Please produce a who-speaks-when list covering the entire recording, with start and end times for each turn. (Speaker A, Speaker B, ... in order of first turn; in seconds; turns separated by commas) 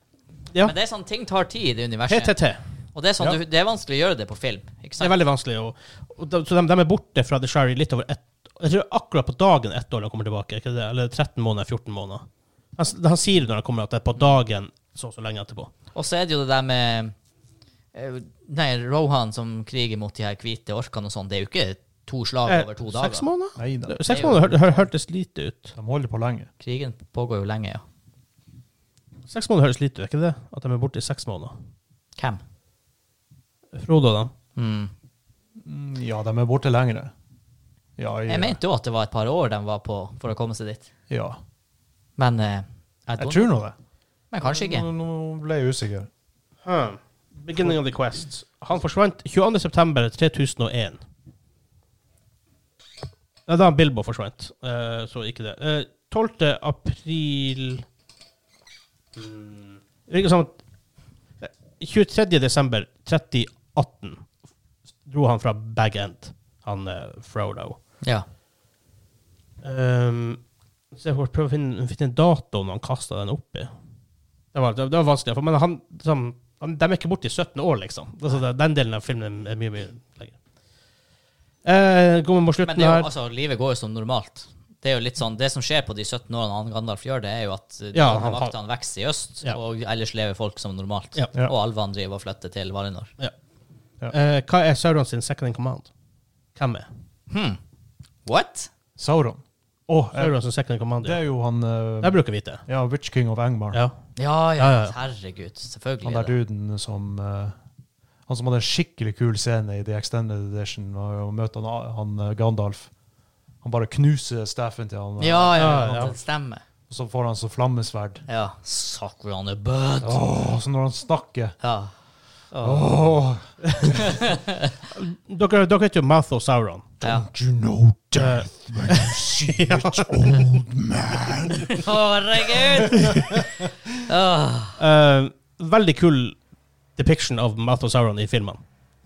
Speaker A: 0.6-2.4, Speaker B: 2.1-2.6, Speaker A: 2.9-5.1, Speaker B: 5.0-12.2, Speaker B: 12.8-15.7, Speaker A: 15.9-17.1, Speaker A: 17.9-23.3, Speaker B: 22.5-25.8, Speaker C: 23.6-24.6, Speaker A: 24.1-24.8, Speaker C: 25.8-26.5, Speaker A: 26.6-27.8, Speaker B: 29.3-31.5, Speaker B: 33.7-34.3, Speaker A: 34.5-34.9, Speaker C: 35.6-37.1, Speaker C: 38.0-38.6, Speaker A: 38.3-40.9, Speaker C: 41.1-41.4, Speaker A: 42.2-43.5, Speaker C: 43.2-43.8, Speaker A: 44.3-44.9, Speaker C: 44.4-46.1, Speaker B: 46.6-51.0, Speaker B: 53.5-57.9, Speaker B: 59.2-60.5, Speaker B: 61.4-64.2, Speaker B: 65.1-67.8, Speaker B: 69.6-70.4, Speaker B: 70.9-73.7, Speaker B: 74.5-80.4, Speaker B: 81.6-83.1, Speaker A: 82.6-93.1, Speaker B: 87.9-88.5, Speaker B: 94.1-95.9, Speaker B: 96.6-96.9, Speaker A: 97.3-97.6, Speaker A: 98.3-98.7, Speaker C: 99.0-100.4, Speaker B: 100.2-101.2, Speaker C: 101.0-103.8, Speaker B: 102.0-102.6, Speaker A: 104.2-106.3, Speaker B: 104.6-105.0, Speaker C: 106.0-107.5, Speaker C: 108.3-112.9, Speaker C: 113.6-116.2, Speaker A: 115.2-116.6, Speaker B: 115.6-116.1, Speaker C: 116.9-118.2, Speaker A: 118.3-120.2, Speaker C: 120.0-121.6, Speaker A: 121.6-121.9, Speaker A: 122.5-122.8, Speaker C: 122.6-124.1, Speaker B: 123.6-124.0, Speaker A: 123.9-124.7, Speaker B: 124.9-126.9, Speaker C: 127.0-131.9, Speaker A: 127.0-127.3, Speaker B: 128.2-130.4, Speaker A: 131.7-134.8, Speaker C: 132.6-133.4, Speaker B: 134.8-136.4, Speaker B: 137.0-138.6